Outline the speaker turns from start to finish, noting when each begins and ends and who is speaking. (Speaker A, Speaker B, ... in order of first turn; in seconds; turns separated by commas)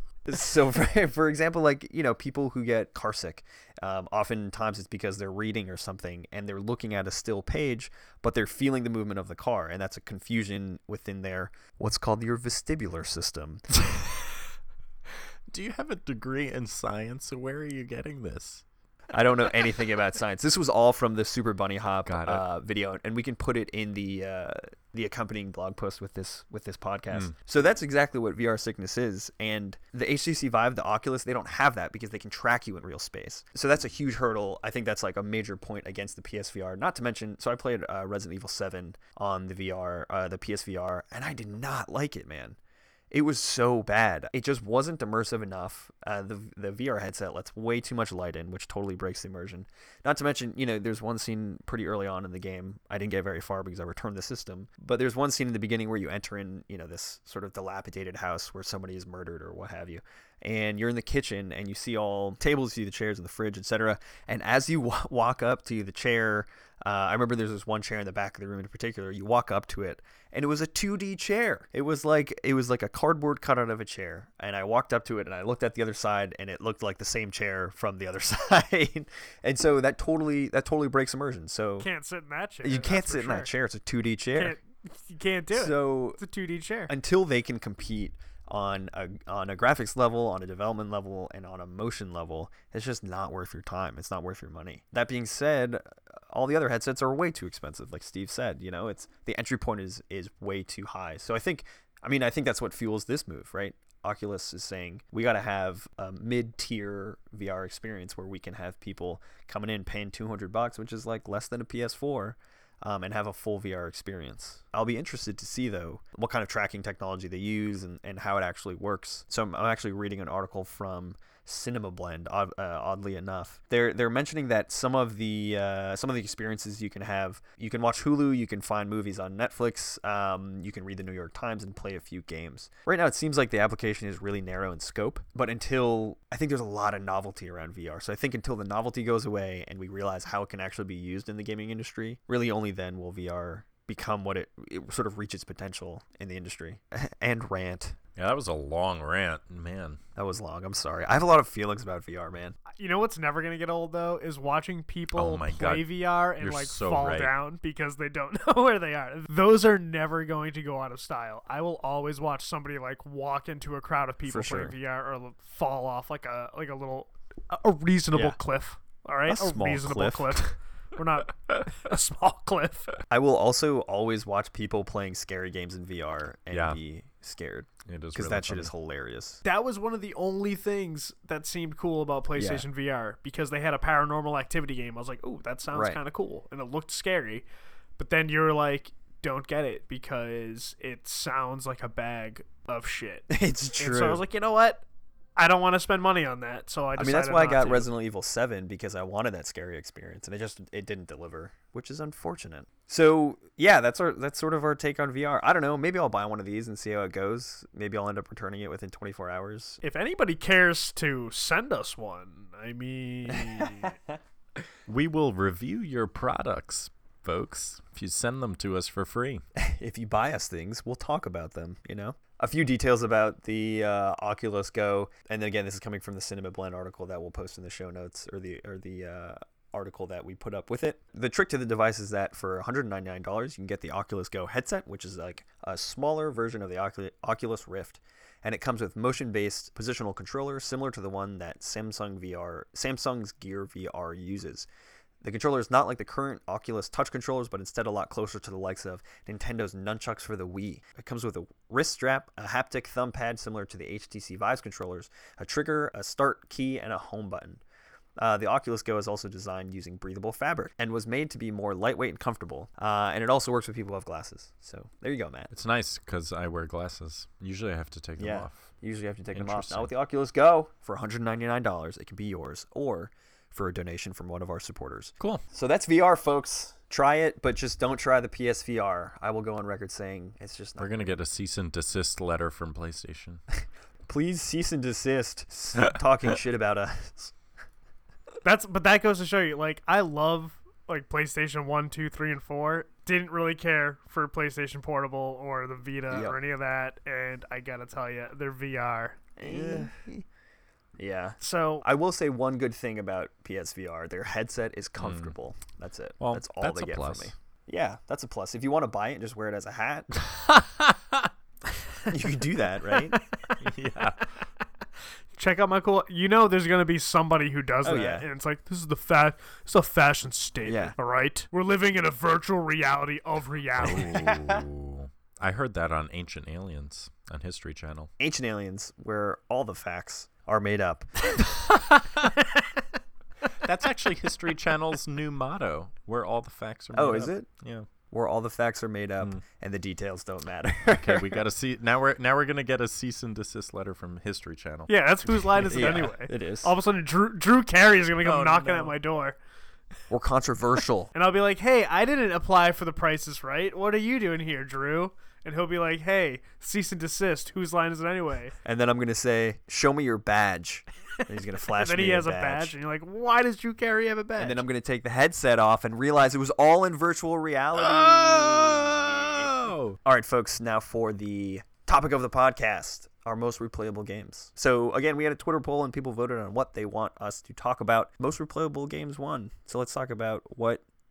Speaker A: 0.2-13.6, Speaker B: 15.5-18.6, Speaker A: 19.1-42.6, Speaker B: 22.1-22.4, Speaker A: 43.1-81.9, Speaker C: 81.8-83.5, Speaker A: 82.6-84.5, Speaker C: 84.3-86.9, Speaker A: 85.5-86.2, Speaker A: 86.9-148.0, Speaker B: 148.2-150.0, Speaker A: 150.2-152.6, Speaker C: 152.7-172.9, Speaker B: 155.1-157.3, Speaker A: 164.3-164.7, Speaker A: 168.1-168.4, Speaker A: 169.3-170.5, Speaker A: 173.1-179.4, Speaker B: 176.5-176.8, Speaker B: 177.8-178.7, Speaker C: 179.4-187.4, Speaker A: 182.4-182.7, Speaker A: 185.7-186.0, Speaker C: 188.0-194.8, Speaker A: 193.3-194.2, Speaker C: 195.4-197.9, Speaker A: 196.9-209.8, Speaker C: 209.8-213.9, Speaker A: 213.3-214.2, Speaker B: 214.9-219.4, Speaker A: 219.6-244.7, Speaker A: 245.2-257.6, Speaker A: 258.2-265.5, Speaker B: 265.5-268.7, Speaker A: 268.2-281.0, Speaker B: 269.3-269.9, Speaker B: 280.8-283.4, Speaker A: 284.1-287.3, Speaker C: 288.4-299.9, Speaker A: 296.1-296.4, Speaker A: 299.4-300.2, Speaker A: 301.0-310.1, Speaker C: 301.4-301.9, Speaker B: 305.0-305.3, Speaker B: 306.2-307.3, Speaker B: 310.2-311.3, Speaker A: 312.1-313.2, Speaker C: 313.1-313.5, Speaker B: 313.6-314.3, Speaker C: 315.4-324.3, Speaker A: 317.8-318.2, Speaker A: 320.6-320.9, Speaker B: 323.8-328.1, Speaker A: 328.2-331.5, Speaker B: 331.7-332.3, Speaker B: 333.6-337.9, Speaker A: 336.9-337.5, Speaker A: 338.1-341.4, Speaker B: 340.9-346.0, Speaker C: 344.9-349.4, Speaker A: 345.7-346.7, Speaker B: 348.2-348.9, Speaker A: 350.1-351.1, Speaker C: 351.1-358.5, Speaker A: 358.6-362.7, Speaker C: 361.7-364.6, Speaker A: 364.4-369.5, Speaker B: 367.8-370.0, Speaker A: 370.0-380.8